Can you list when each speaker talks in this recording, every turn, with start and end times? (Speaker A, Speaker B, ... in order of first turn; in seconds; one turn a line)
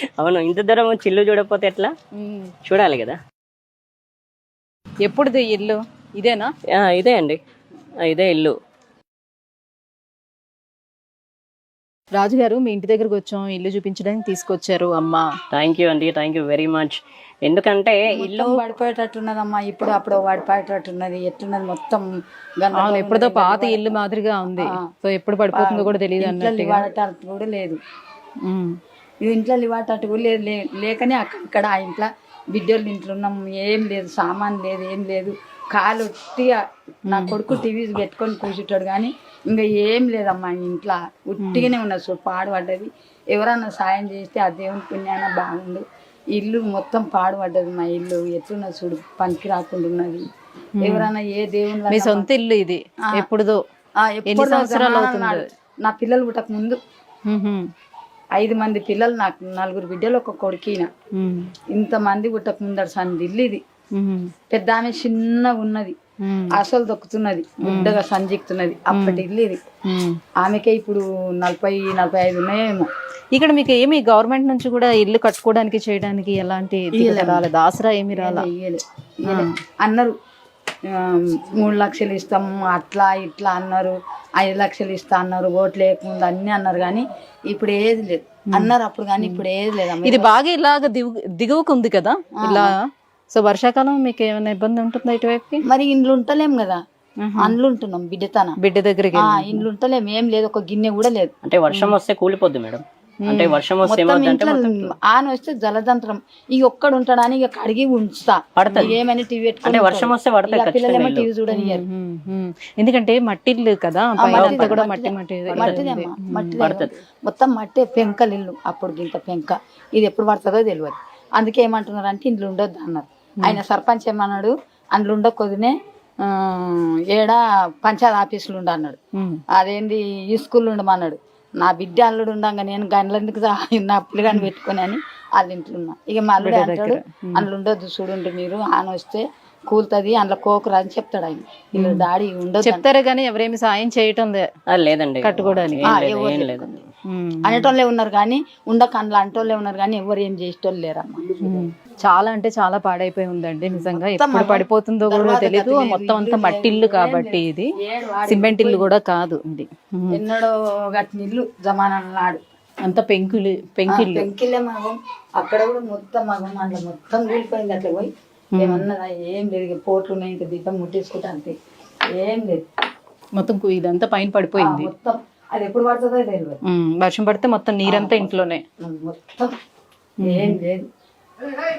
Speaker A: 0.2-1.9
Speaker B: 2.2-2.5
Speaker A: 2.6-3.2
Speaker B: 5.0-6.5
Speaker A: 6.7-7.4
Speaker A: 8.0-8.6
Speaker B: 12.1-15.2
Speaker A: 15.5-18.6
Speaker C: 18.1-22.1
Speaker C: 22.6-23.9
Speaker B: 22.7-26.9
Speaker C: 24.6-24.9
Speaker C: 25.5-27.8
Speaker B: 28.4-28.8
Speaker C: 29.2-50.2
Speaker B: 37.1-37.4
Speaker B: 41.4-41.7
Speaker B: 50.8-51.1
Speaker C: 50.8-52.3
Speaker B: 51.9-53.6
Speaker C: 54.0-56.8
Speaker B: 54.3-55.4
Speaker B: 57.3-57.7
Speaker C: 58.4-60.9
Speaker B: 61.1-61.5
Speaker C: 61.7-63.6
Speaker B: 64.0-64.3
Speaker C: 64.5-66.0
Speaker B: 66.2-66.6
Speaker C: 66.5-69.6
Speaker B: 67.6-68.0
Speaker B: 68.9-69.2
Speaker B: 69.9-70.2
Speaker C: 70.4-72.9
Speaker B: 73.3-78.5
Speaker C: 76.9-77.4
Speaker C: 78.2-80.1
Speaker C: 80.9-90.3
Speaker B: 88.5-89.4
Speaker B: 90.0-95.6
Speaker C: 92.4-92.7
Speaker C: 95.7-96.8
Speaker B: 97.2-97.5
Speaker C: 97.4-98.6
Speaker B: 98.6-99.6
Speaker C: 99.1-101.3
Speaker A: 101.5-104.9
Speaker B: 101.7-102.0
Speaker B: 103.3-103.6
Speaker C: 103.8-111.8
Speaker A: 108.6-108.9
Speaker A: 109.6-111.2
Speaker B: 111.5-116.6
Speaker C: 114.2-129.0
Speaker A: 114.4-114.7
Speaker A: 116.6-116.9
Speaker B: 129.1-129.4
Speaker C: 129.5-142.8
Speaker B: 136.4-137.5
Speaker B: 141.8-142.1
Speaker B: 142.6-144.4
Speaker A: 144.7-146.7
Speaker B: 145.2-145.9
Speaker C: 145.8-146.8
Speaker B: 147.1-147.7
Speaker C: 147.4-151.7
Speaker B: 151.4-157.7
Speaker C: 153.7-158.9
Speaker B: 158.3-160.2
Speaker C: 160.1-162.4
Speaker B: 162.8-164.3
Speaker C: 163.9-171.5
Speaker B: 168.5-168.8
Speaker C: 172.2-172.6
Speaker B: 173.3-174.9
Speaker C: 174.6-176.6
Speaker B: 176.6-178.6
Speaker C: 177.8-178.2
Speaker C: 178.8-179.5
Speaker B: 180.2-180.6
Speaker C: 180.2-180.9